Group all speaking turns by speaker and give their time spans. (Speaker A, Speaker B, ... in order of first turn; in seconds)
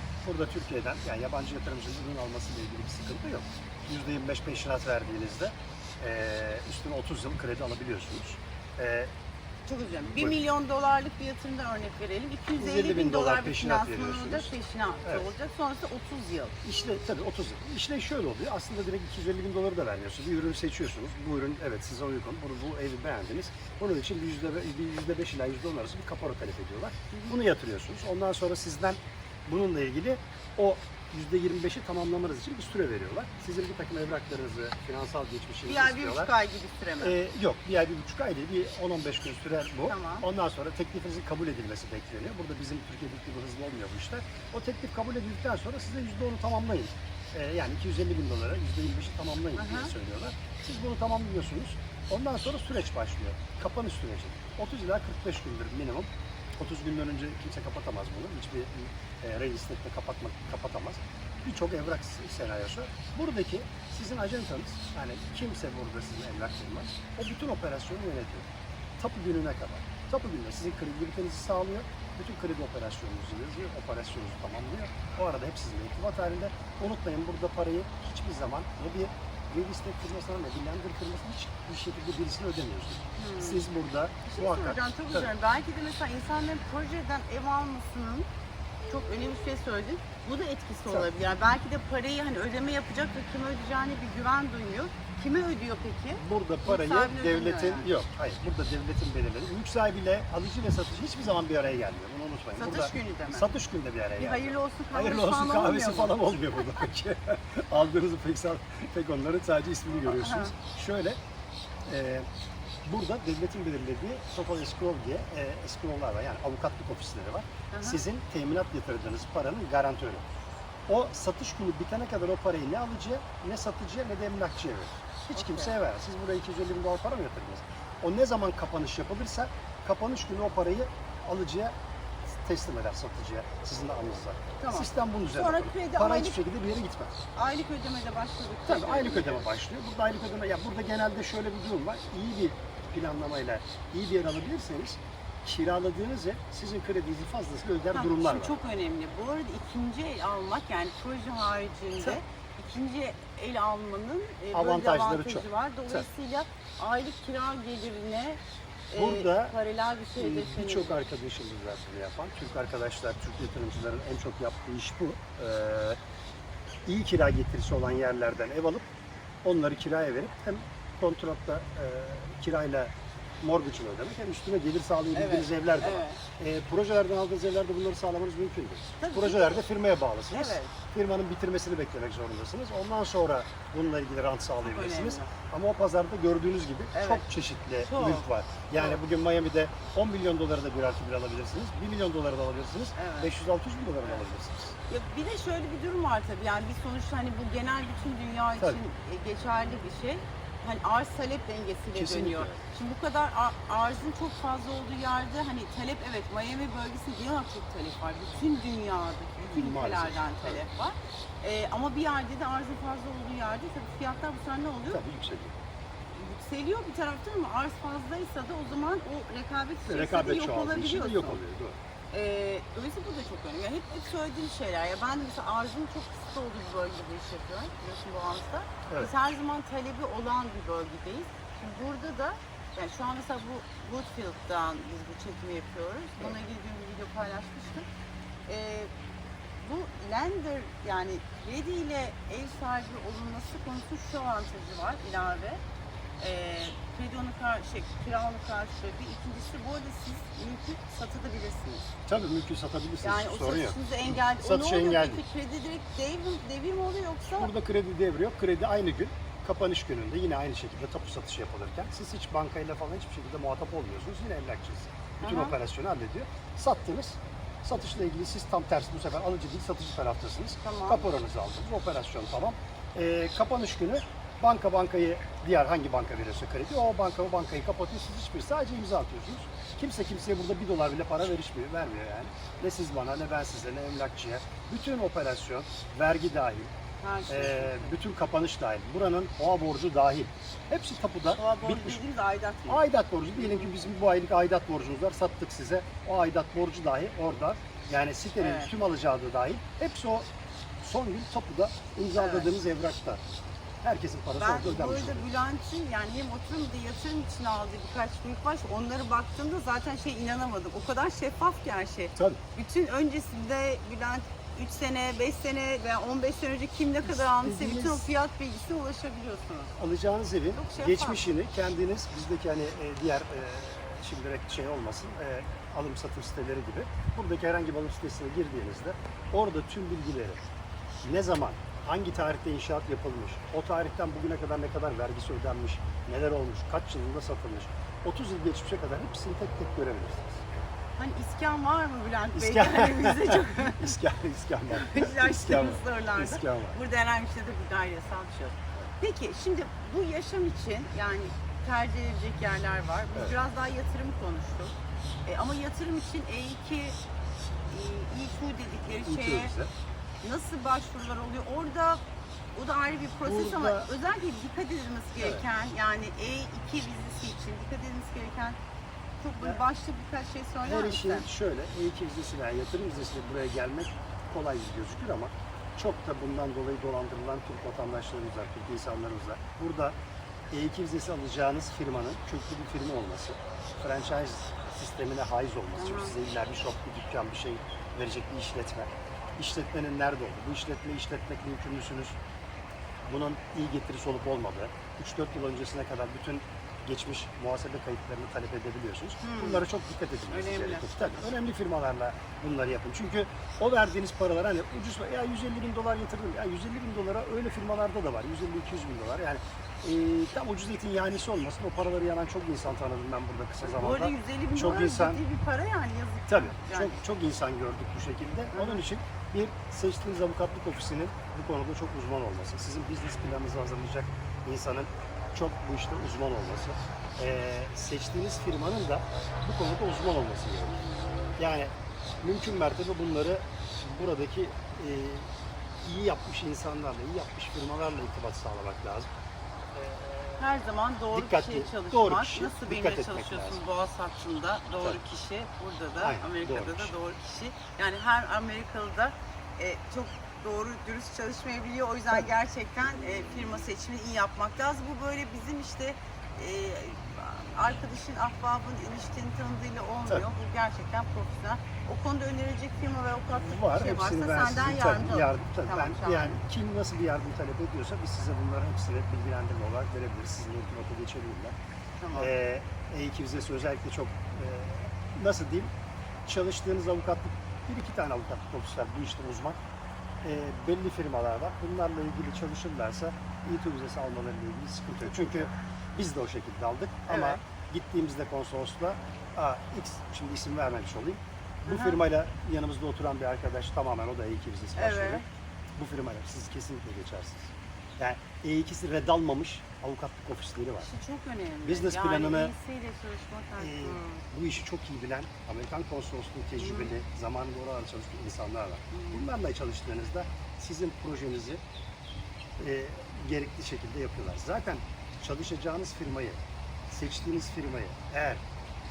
Speaker A: 0.2-9.1, 12.6-14.5, 16.6-36.3, 37.0-68.5, 69.0-85.3, 96.2-111.2, 111.9-112.3, 112.8-120.2, 120.9-131.7, 132.3-137.1, 138.7-148.6, 154.5-156.1, 158.9-159.6, 160.2-166.0, 166.9-168.9, 169.4-172.9, 173.4-194.8, 201.9-202.6, 209.4-210.6, 214.9-215.6, 219.9-221.8, 252.1-255.2, 257.4-286.7, 287.3-292.0, 292.7-300.3, 300.8-303.2, 303.8-305.3, 317.1-318.1, 319.8-330.4, 331.0-340.4, 342.3-346.8, 358.9-359.7, 363.2-363.9, 365.2-365.4, 370.6-380.0, 380.5-392.2, 393.1-415.2, 416.3-430.9, 431.4-435.3, 435.8-439.1, 439.7-443.6, 446.0-446.9, 463.3-471.6, 472.1-475.7, 476.3-479.6, 480.2-495.2, 495.8-500.9, 501.6-502.5, 503.6-511.6, 512.6-518.4
Speaker B: 9.7-16.6, 27.1-27.4, 35.7-37.2, 39.9-40.3, 49.6-49.9, 83.2-83.6, 84.3-88.3, 88.9-97.9, 102.5-103.5, 104.2-106.9, 110.0-110.5, 117.7-118.0, 125.3-125.8, 134.6-136.4, 137.3-139.5, 147.9-158.4, 158.9-160.9, 175.1-176.2, 179.0-179.6, 180.3-180.7, 184.6-185.3, 186.9-187.2, 187.8-189.0, 193.0-193.3, 194.9-215.0, 216.1-221.4, 222.1-237.8, 238.5-238.9, 239.6-245.6, 246.2-251.9, 253.0-257.5, 265.2-265.6, 270.6-271.1, 287.0-287.9, 291.4-292.8, 293.4-293.7, 298.4-298.7, 302.1-302.5, 304.4-319.7, 320.6-321.3, 341.0-344.0, 344.7-354.7, 355.2-357.0, 357.7-359.6, 360.2-362.0, 362.6-368.6, 369.2-371.3, 385.8-386.2, 399.2-399.7, 400.3-401.3, 413.6-417.0, 418.5-418.8, 440.4-466.4, 472.0-472.3, 487.1-487.4, 491.7-492.0, 494.8-495.2, 500.8-504.2, 506.6-507.0, 508.9-509.3